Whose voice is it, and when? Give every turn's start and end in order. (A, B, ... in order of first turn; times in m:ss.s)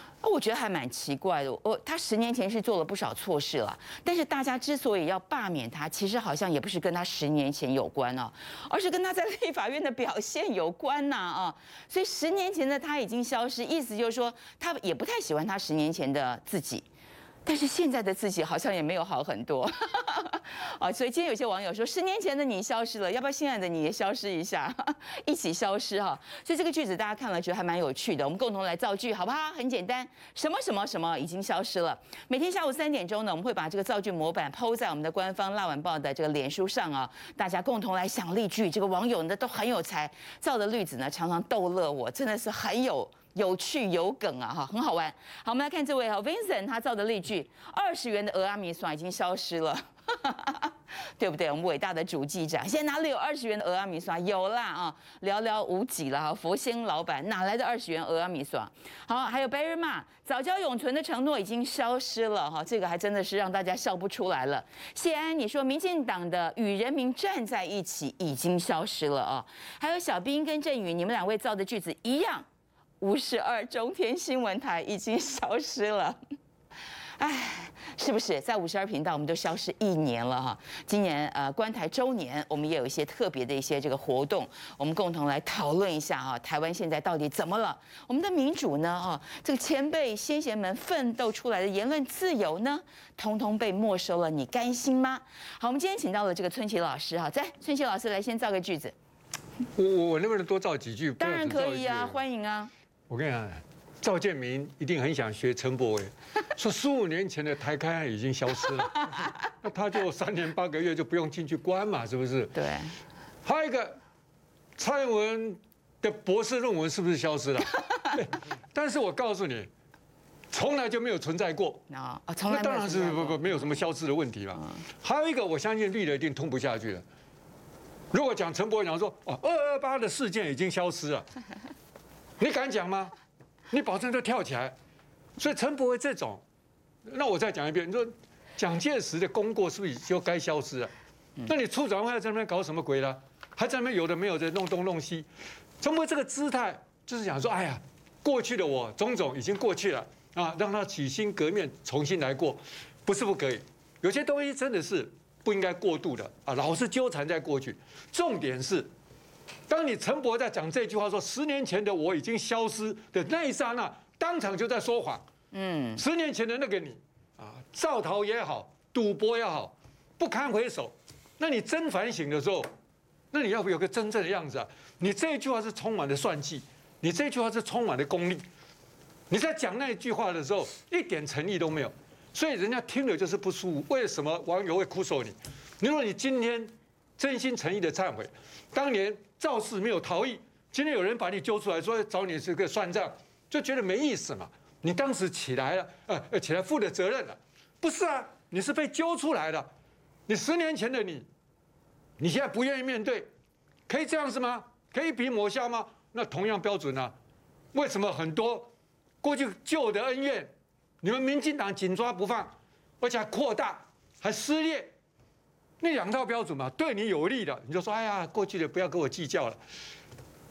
0:00.2-0:16.8 A
0:17.4-1:12.4 A
1:13.0-1:16.2 A
1:17.2-1:38.9 A
1:39.7-1:42.2 B
1:41.2-1:42.7 A
1:43.1-1:52.6 B
1:52.6-1:52.9 A
1:53.4-1:54.0 B
1:54.8-1:59.7 B
2:00.5-2:01.8 B
2:01.9-2:03.6 A
2:02.5-2:07.0 B
2:08.1-2:11.3 B
2:12.4-2:13.1 B
2:13.7-2:14.7 B
2:15.4-2:16.4 B
2:17.0-2:20.9 B
2:21.4-2:25.3 B
2:25.8-2:38.9 B
2:39.7-2:45.2 B
2:45.5-2:46.0 A
2:46.0-2:52.7 B
2:53.3-2:58.4 B
2:59.3-3:19.7 B
3:20.3-3:21.3 B
3:22.2-3:23.3 B
3:23.9-3:27.1 B
3:27.7-3:28.7 B
3:29.2-3:34.9 B
3:35.8-3:39.6 B